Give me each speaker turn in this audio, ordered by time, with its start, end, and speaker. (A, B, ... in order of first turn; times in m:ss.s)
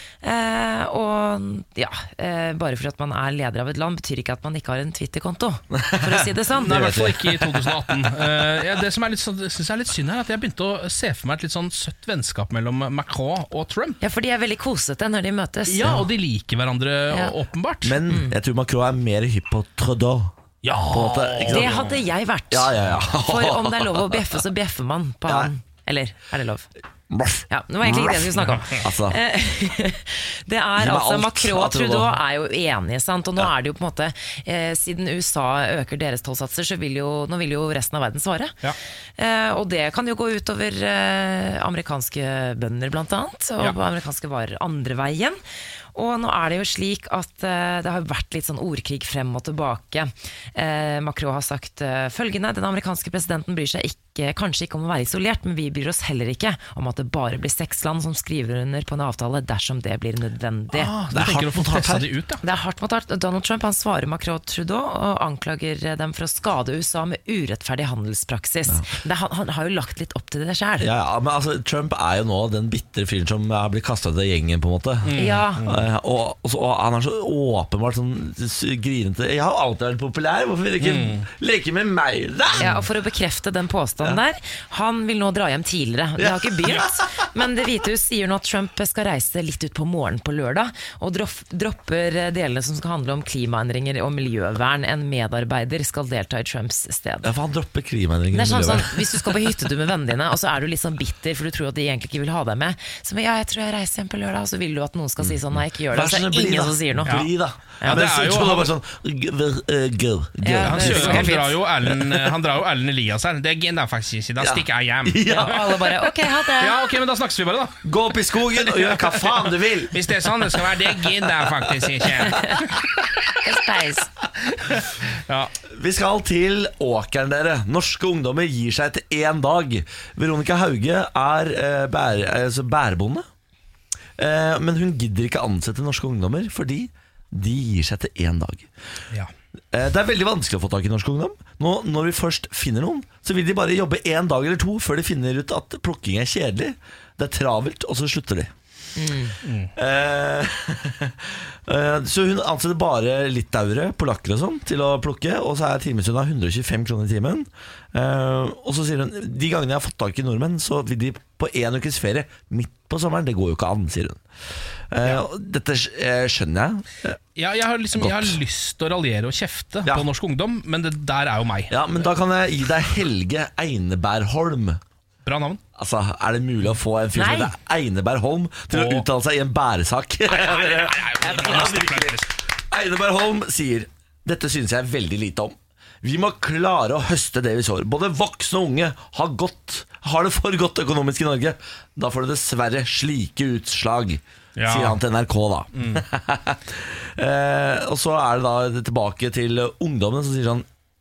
0:00.2-0:06.9 A
0:05.7-0:08.2 B
0:06.6-0:14.0 C
0:14.0-0:16.0 A
0:15.7-0:18.0 C
0:17.8-0:20.3 B
0:18.1-0:18.4 A
0:20.6-0:22.0 C
0:20.9-0:22.0 B
0:21.5-0:26.7 A
0:22.5-0:24.2 B
0:27.1-0:29.2 B
0:27.5-0:38.6 A
0:28.5-0:28.8 C
0:30.8-0:32.2 B
0:39.2-0:45.4 A
0:46.0-1:00.9 A
1:00.7-1:02.4 C
1:01.1-1:02.1 B
1:02.4-1:10.9 A
1:10.8-1:22.8 B
1:15.0-1:15.8 C
1:15.2-1:15.7 A
1:20.8-1:21.3 C
1:22.6-1:37.3 A
1:26.2-1:27.2 B
1:37.2-1:39.3 B
1:38.3-1:47.2 A
1:45.2-1:52.3 B
1:47.8-1:48.7 C
1:50.4-1:51.6 A
1:50.6-1:55.7 C
1:54.4-1:55.8 B
1:55.3-1:56.8 A
1:56.6-1:57.8 C
1:57.8-2:02.4 B
1:58.5-2:02.9 C
2:03.4-2:04.1 A
2:04.4-2:05.5 C
2:05.7-2:13.2 B
2:14.2-2:18.7 B
2:19.7-2:28.5 B
2:29.0-2:29.4 A
2:29.4-2:29.7 C
2:29.8-2:44.2 B
2:44.9-2:47.2 B
2:47.4-2:51.8 C
2:47.9-2:48.4 B
2:51.7-2:54.8 B
2:55.2-2:55.6 C
2:55.8-3:20.7 B
2:57.2-2:57.5 A
2:58.7-2:59.1 C
3:00.3-3:02.3 C
3:14.6-3:15.0 C
3:15.8-3:16.0 C